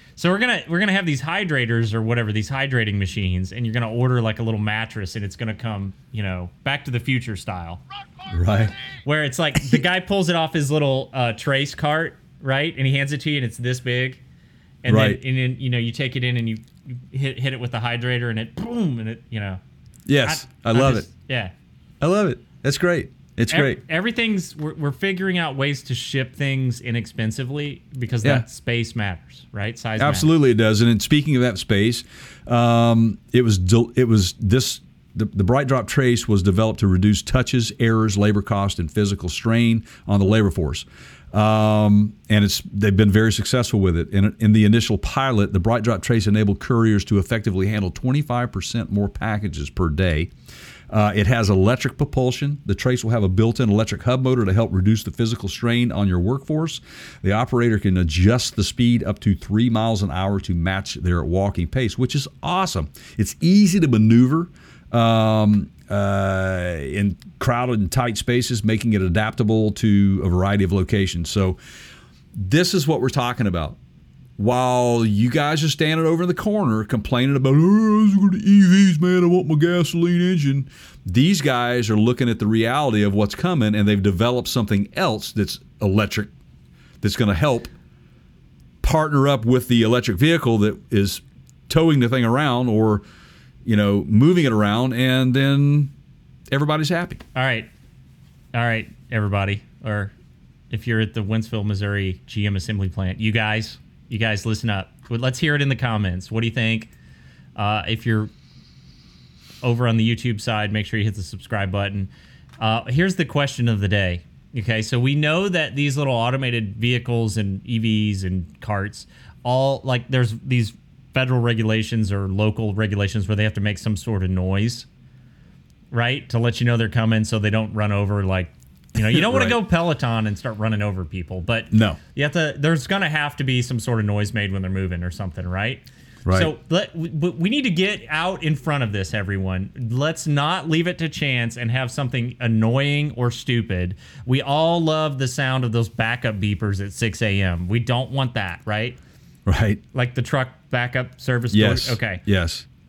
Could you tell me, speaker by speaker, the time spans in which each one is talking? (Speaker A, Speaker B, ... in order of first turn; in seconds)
Speaker A: 0.1-7.8, 9.0-14.2, 14.8-19.6, 20.2-21.5, 23.5-30.3, 97.3-97.7, 98.5-100.1, 100.7-106.9, 107.5-108.3, 109.6-124.9, 125.9-149.0, 149.9-152.2
Speaker B: 8.3-8.7, 14.9-15.2, 20.1-21.1, 22.0-23.8, 30.0-50.3, 50.9-71.6, 72.3-73.8, 74.4-86.3, 87.0-87.7, 88.8-93.0, 93.6-95.9, 96.5-97.2, 129.0-129.6, 131.7-132.0, 136.2-136.5, 149.4-149.8, 151.5-152.7